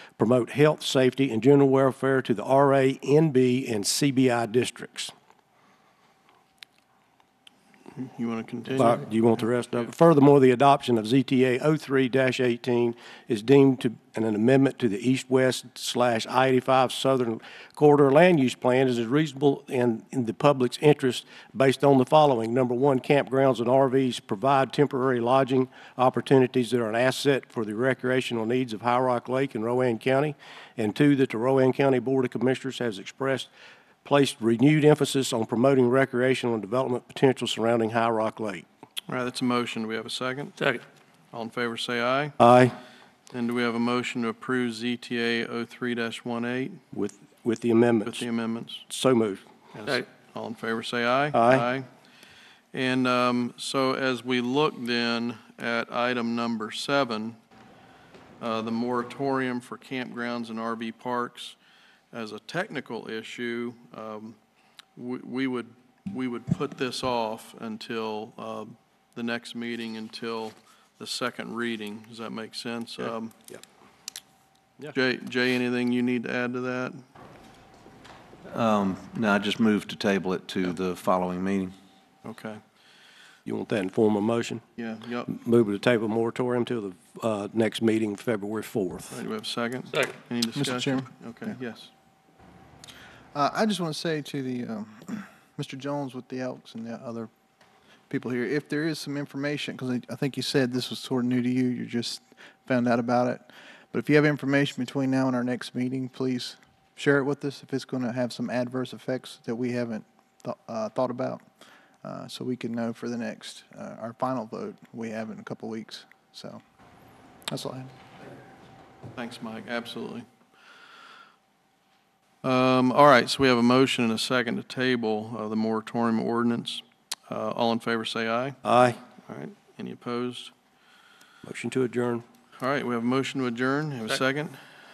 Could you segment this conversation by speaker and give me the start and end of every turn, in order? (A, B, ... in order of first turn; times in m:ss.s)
0:00.2-0:05.1 A
0:07.9-0:09.0 B
0:08.8-0:33.5 A
0:34.0-0:38.6 A
0:39.1-0:42.3 B
0:42.4-0:42.7 A
0:43.3-0:46.8 B
0:46.9-0:48.2 A
0:48.0-0:48.8 B
0:48.9-0:49.4 A
0:49.7-0:51.9 B
0:51.3-0:51.7 A
0:52.7-0:57.4 B
0:58.4-1:01.6 B
1:02.1-1:04.4 B
1:05.0-1:13.3 B
1:14.9-1:17.0 B
1:18.5-1:21.7 C
1:22.2-1:22.6 B
1:23.4-1:24.6 A
1:24.8-1:25.3 B
1:25.3-1:29.2 A
1:29.1-1:31.9 B
1:30.6-1:31.1 D
1:33.3-1:37.3 D
1:38.1-1:51.4 D
1:52.0-1:56.6 D
1:57.5-1:57.9 D
1:59.2-2:00.2 B
2:02.4-2:08.6 B
2:08.6-2:09.0 A
2:09.2-2:10.5 B
2:11.4-2:12.2 A
2:12.6-2:14.6 B